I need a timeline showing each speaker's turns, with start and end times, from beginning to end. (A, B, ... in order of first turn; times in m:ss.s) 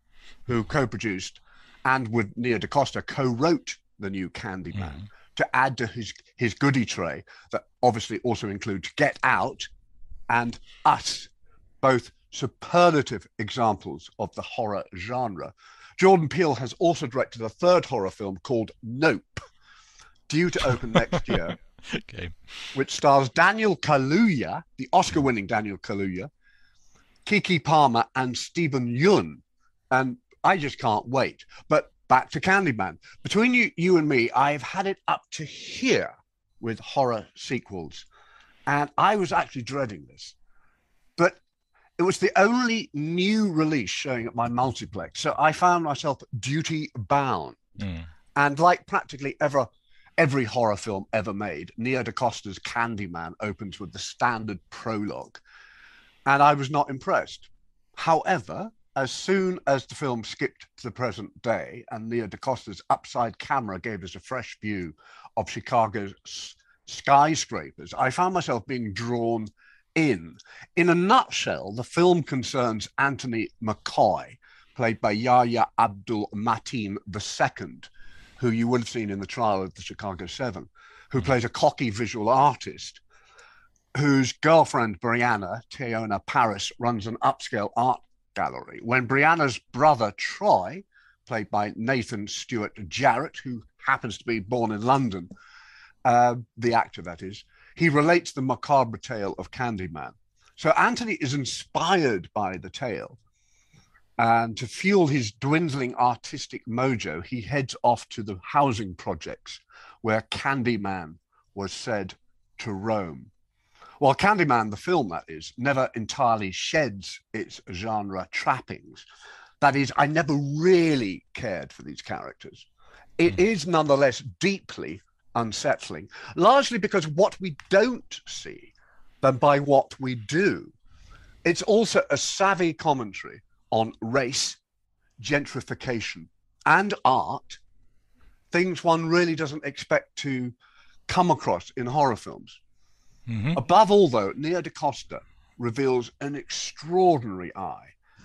0:00.5-0:09.7 A
0:10.3-0:11.3 A
0:11.8-0:19.5 A
0:20.3-0:21.6 A
0:21.1-0:22.4 B
0:22.7-0:26.3 A
0:27.2-0:38.1 A
0:38.7-0:40.4 A
0:42.0-0:47.6 A
0:47.8-0:48.1 B
0:48.4-0:55.4 A
0:56.3-1:23.0 A
1:24.0-1:35.3 A
1:36.0-1:43.2 A
1:44.2-1:53.3 A
1:54.0-1:59.1 A
1:59.6-2:02.7 A
2:03.2-2:10.7 A
2:11.4-2:14.6 A
2:15.2-2:17.6 A
2:18.5-2:20.6 A
2:21.1-2:22.6 A
2:23.3-2:23.6 B
2:23.5-2:27.9 A